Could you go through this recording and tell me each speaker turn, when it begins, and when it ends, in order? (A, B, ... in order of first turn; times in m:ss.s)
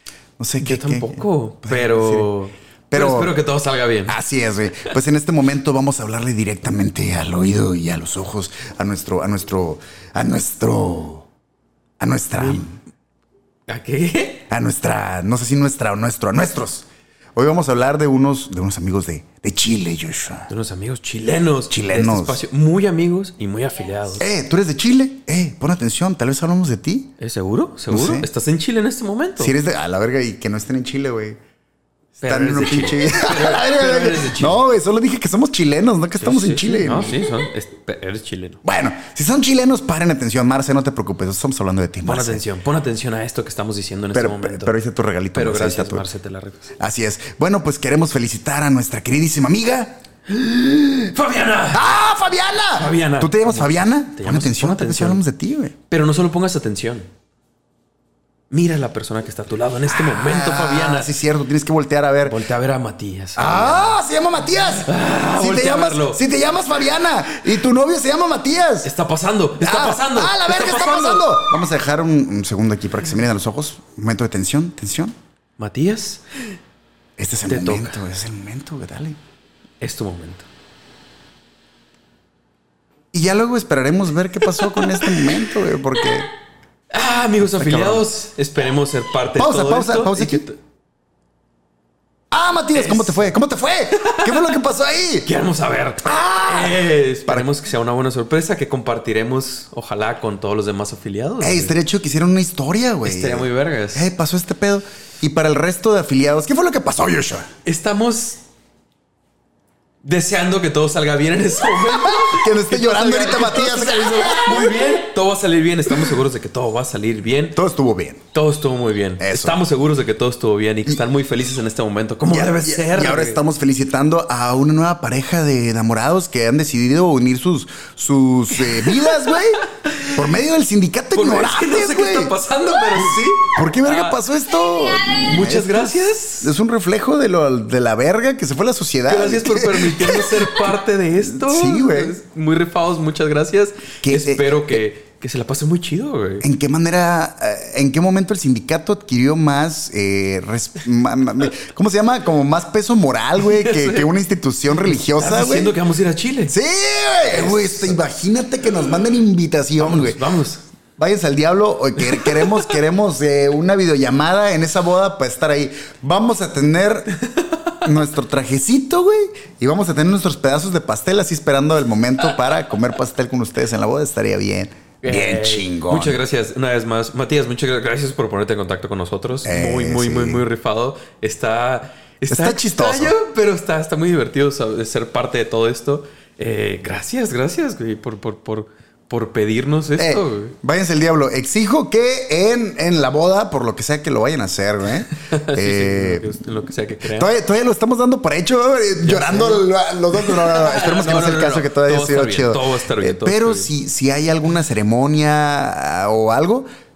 0:00.4-0:02.3 A
0:00.6-0:04.2 B
0:02.9-0:03.4 A
0:04.1-0:11.3 A
0:12.0-0:12.8 A
0:12.4-0:12.6 B
0:13.7-0:14.5 B
0:14.5-0:20.5 A
0:20.5-0:24.3 B
0:21.7-0:22.4 A
0:24.2-0:27.1 A
0:27.2-0:29.6 B
0:27.9-0:28.3 A
0:29.4-0:31.4 A
0:32.2-0:34.6 B
0:32.2-0:37.2 A
0:36.2-0:38.6 B
0:38.6-0:42.4 A
0:42.0-0:44.8 B
0:44.1-0:46.1 A
0:45.3-0:46.8 B
0:46.8-0:50.0 A
0:50.3-0:51.9 B
0:51.7-0:55.8 A
0:52.8-0:55.2 B
0:55.9-0:57.1 B
0:58.5-1:01.1 B
0:59.9-1:02.4 A
1:02.2-1:04.0 B
1:03.4-1:08.9 A
1:04.8-1:06.2 B
1:08.8-1:11.3 B
1:09.6-1:15.2 A
1:15.6-1:16.6 B
1:17.2-1:19.2 A
1:17.5-1:18.0 B
1:19.8-1:20.5 B
1:23.1-1:26.3 A
1:24.7-1:25.4 B
1:26.9-1:30.6 B
1:27.4-1:28.0 A
1:29.3-1:30.4 A
1:32.3-1:35.3 A
1:32.7-1:33.4 B
1:34.0-1:34.3 B
1:35.2-1:41.8 B
1:36.0-1:37.5 A
1:41.4-1:47.5 A
1:43.0-1:44.1 B
1:47.6-1:48.4 B
1:50.0-1:57.6 B
1:51.9-1:55.0 A
1:57.5-1:58.2 A
1:58.3-2:03.4 B
1:59.2-1:59.6 A
2:02.3-2:20.6 A
2:08.8-2:10.2 B
2:11.1-2:14.2 B
2:15.2-2:16.5 B
2:19.1-2:26.5 B
2:21.3-2:22.2 A
2:24.0-2:24.8 A
2:26.4-2:35.8 A
2:33.4-2:34.1 B
2:34.7-2:36.6 B
2:36.5-2:40.2 A
2:37.2-2:38.0 B
2:39.8-2:40.6 B
2:41.0-2:47.1 A
2:42.0-2:42.7 B
2:47.2-2:47.8 B
2:47.8-2:56.2 A
2:55.0-3:10.6 B
2:59.4-3:00.4 A
3:02.3-3:03.2 A
3:10.0-3:16.4 A
3:15.1-3:17.3 B
3:17.0-3:26.7 A
3:19.0-3:23.7 B